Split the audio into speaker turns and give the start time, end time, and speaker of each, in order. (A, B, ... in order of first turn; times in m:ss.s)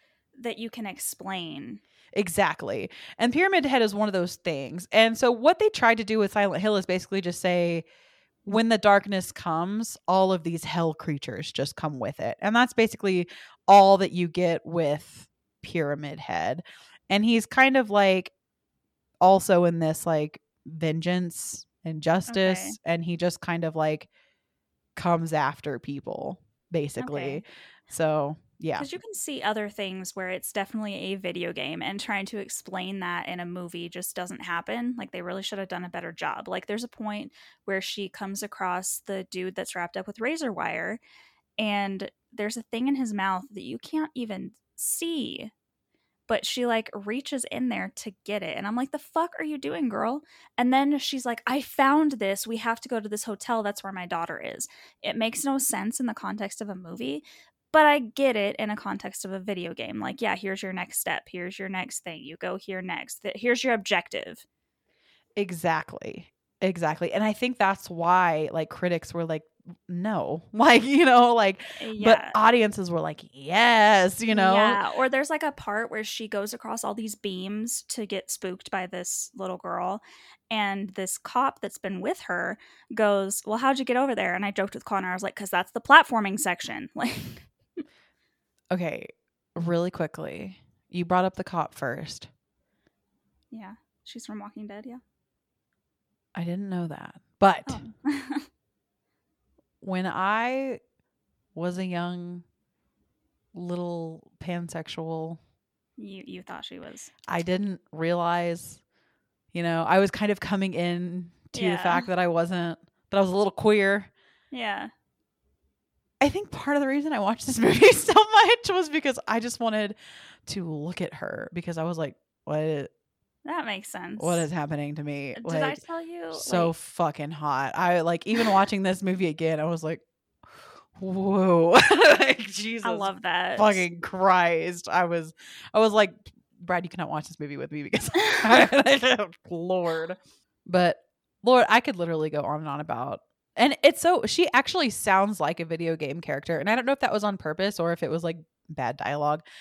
0:00.4-0:01.8 A
0:02.2-0:07.8 B
0:08.4-0:18.3 B
0:19.2-0:24.1 B
0:22.3-0:22.8 A
0:25.0-0:28.9 B
0:27.0-0:27.4 A
0:28.8-0:41.0 A
0:41.6-0:45.5 A
0:46.3-1:04.4 A
1:05.4-1:14.8 B
1:11.8-1:12.4 A
1:14.3-1:27.8 A
1:28.7-1:32.3 B
1:33.5-1:35.0 A
1:36.4-1:37.8 B
1:37.7-1:38.5 A
1:39.8-1:40.8 B
1:41.6-1:42.4 B
1:43.5-1:45.4 B
1:46.0-1:47.1 A
1:47.3-1:48.8 B
1:49.5-1:54.1 B
1:51.6-1:52.1 A
1:54.5-1:54.9 A
1:56.2-2:02.9 B
2:03.4-2:04.5 A
2:04.2-2:05.8 B
2:05.4-2:06.7 A
2:06.3-2:10.0 B
2:11.0-2:29.4 B
2:12.8-2:13.8 A